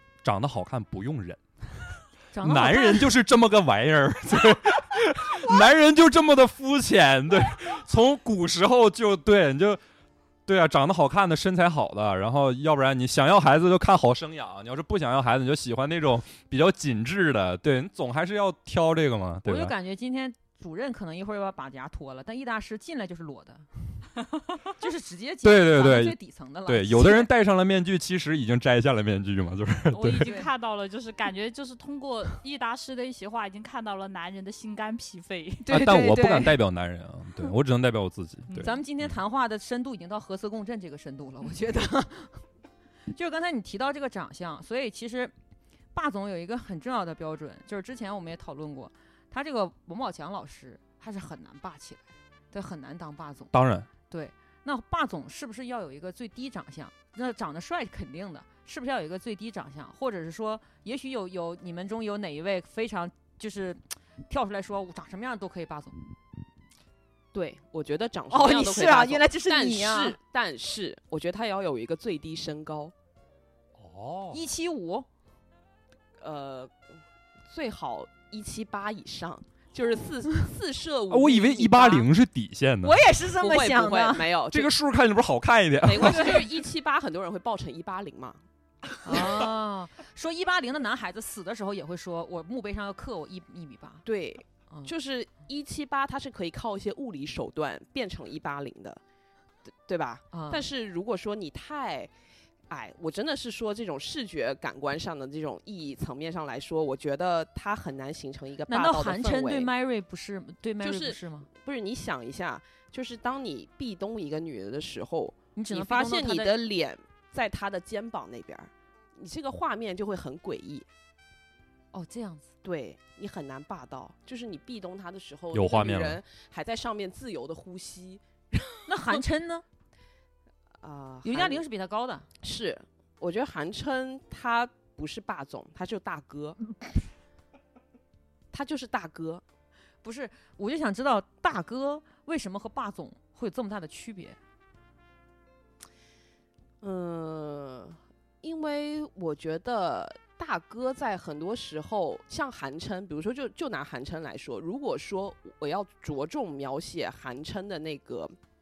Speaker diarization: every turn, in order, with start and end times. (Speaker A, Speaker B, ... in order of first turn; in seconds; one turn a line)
Speaker A: 0.2-1.4
Speaker B: 2.3-3.1
Speaker A: 2.4-9.8
Speaker A: 10.5-19.7
Speaker B: 19.4-23.7
Speaker B: 24.8-27.3
Speaker A: 25.4-30.3
Speaker C: 29.9-35.7
Speaker B: 30.2-30.5
Speaker B: 35.7-36.6
Speaker A: 35.7-39.1
Speaker C: 38.5-38.7
Speaker B: 38.6-42.4
Speaker B: 43.1-45.3
Speaker B: 45.9-53.5
Speaker A: 53.5-53.9
Speaker B: 54.1-66.0
Speaker D: 67.3-72.9
Speaker B: 68.3-70.2
Speaker A: 73.8-74.4
Speaker B: 74.3-75.1
Speaker D: 76.2-76.7
Speaker D: 77.5-82.1
Speaker A: 81.1-83.0
Speaker B: 82.8-84.3
Speaker D: 83.3-84.7
Speaker A: 84.5-86.5
Speaker D: 85.8-88.4
Speaker B: 86.0-86.5
Speaker B: 89.0-94.0
Speaker D: 94.0-99.0
Speaker D: 99.9-102.1
Speaker B: 100.3-100.7
Speaker D: 102.7-109.7
Speaker B: 108.7-111.5
Speaker D: 110.8-120.9
Speaker B: 115.5-116.6
Speaker B: 121.9-122.5
Speaker D: 122.6-129.2
Speaker A: 125.5-126.2
Speaker B: 128.9-129.7
Speaker D: 130.8-131.6
Speaker B: 131.2-132.3
Speaker D: 132.4-136.6
Speaker D: 138.5-139.4
Speaker B: 140.0-144.4
Speaker D: 146.8-158.3